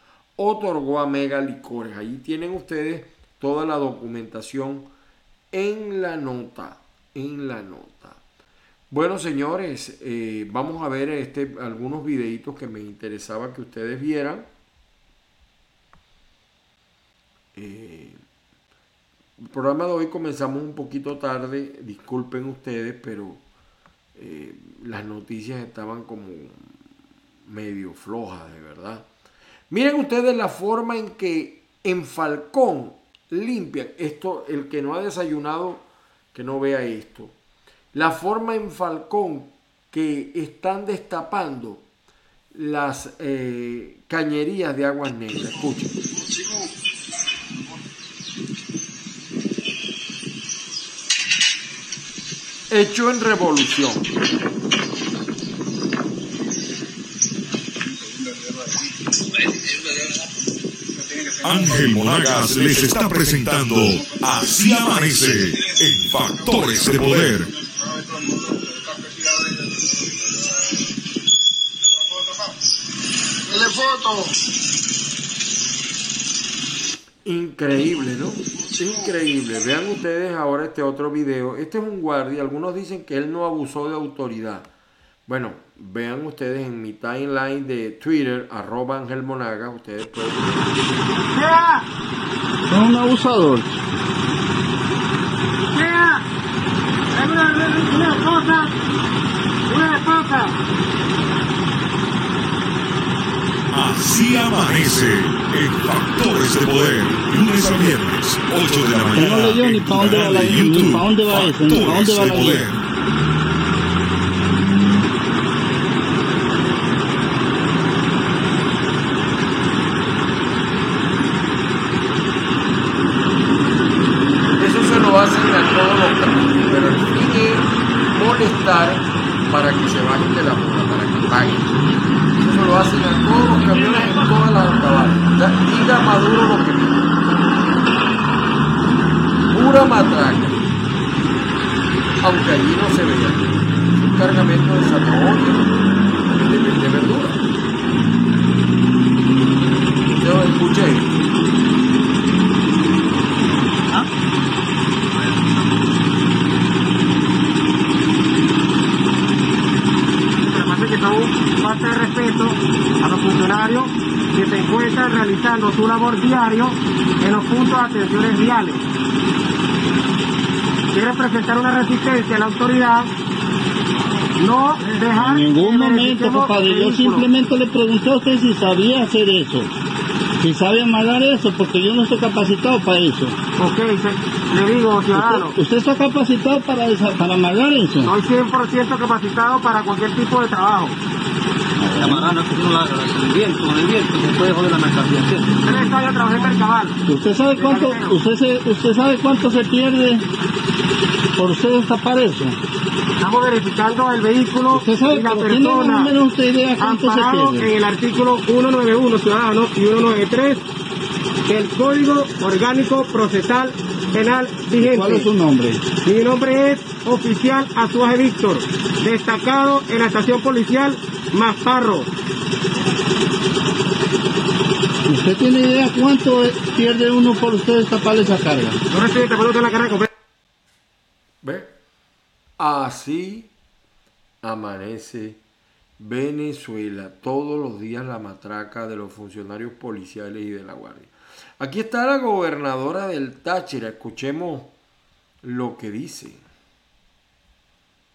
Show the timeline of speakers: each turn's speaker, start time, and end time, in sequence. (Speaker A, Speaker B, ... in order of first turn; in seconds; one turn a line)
Speaker A: 0.4-4.9
Speaker A: 5.5-8.2
Speaker A: 8.9-14.5
Speaker A: 17.5-18.2
Speaker A: 19.4-23.4
Speaker A: 24.1-26.7
Speaker A: 27.4-29.1
Speaker A: 29.7-37.3
Speaker A: 37.9-41.9
Speaker A: 42.5-46.0
Speaker A: 52.7-54.1
Speaker B: 61.4-67.5
Speaker A: 77.2-84.7
Speaker A: 85.3-90.6
Speaker C: 91.3-91.8
Speaker D: 92.7-93.7
Speaker C: 95.7-96.2
Speaker C: 97.1-98.7
Speaker C: 99.7-100.5
Speaker B: 103.7-112.8
Speaker D: 109.2-112.7
Speaker A: 124.6-131.7
Speaker A: 132.4-137.1
Speaker A: 139.5-140.7
Speaker A: 142.2-145.7
Speaker A: 146.2-147.4
Speaker A: 150.1-151.1
Speaker C: 160.4-168.8
Speaker C: 170.9-173.1
Speaker C: 174.4-177.2
Speaker D: 174.9-179.7
Speaker D: 180.4-183.3
Speaker C: 183.6-185.5
Speaker D: 185.1-188.1
Speaker C: 188.0-191.0
Speaker D: 191.8-192.3
Speaker E: 192.0-195.9
Speaker C: 195.6-197.0
Speaker D: 197.1-200.2
Speaker C: 197.6-198.1
Speaker D: 201.4-202.6
Speaker C: 203.2-206.1
Speaker D: 204.7-207.7
Speaker C: 206.8-210.6
Speaker C: 211.4-215.3
Speaker D: 214.8-215.8
Speaker C: 216.0-222.1
Speaker D: 225.1-228.8
Speaker C: 228.9-230.1
Speaker A: 231.4-231.7
Speaker A: 232.6-233.5
Speaker A: 234.4-235.4
Speaker A: 236.0-244.7
Speaker A: 245.4-246.4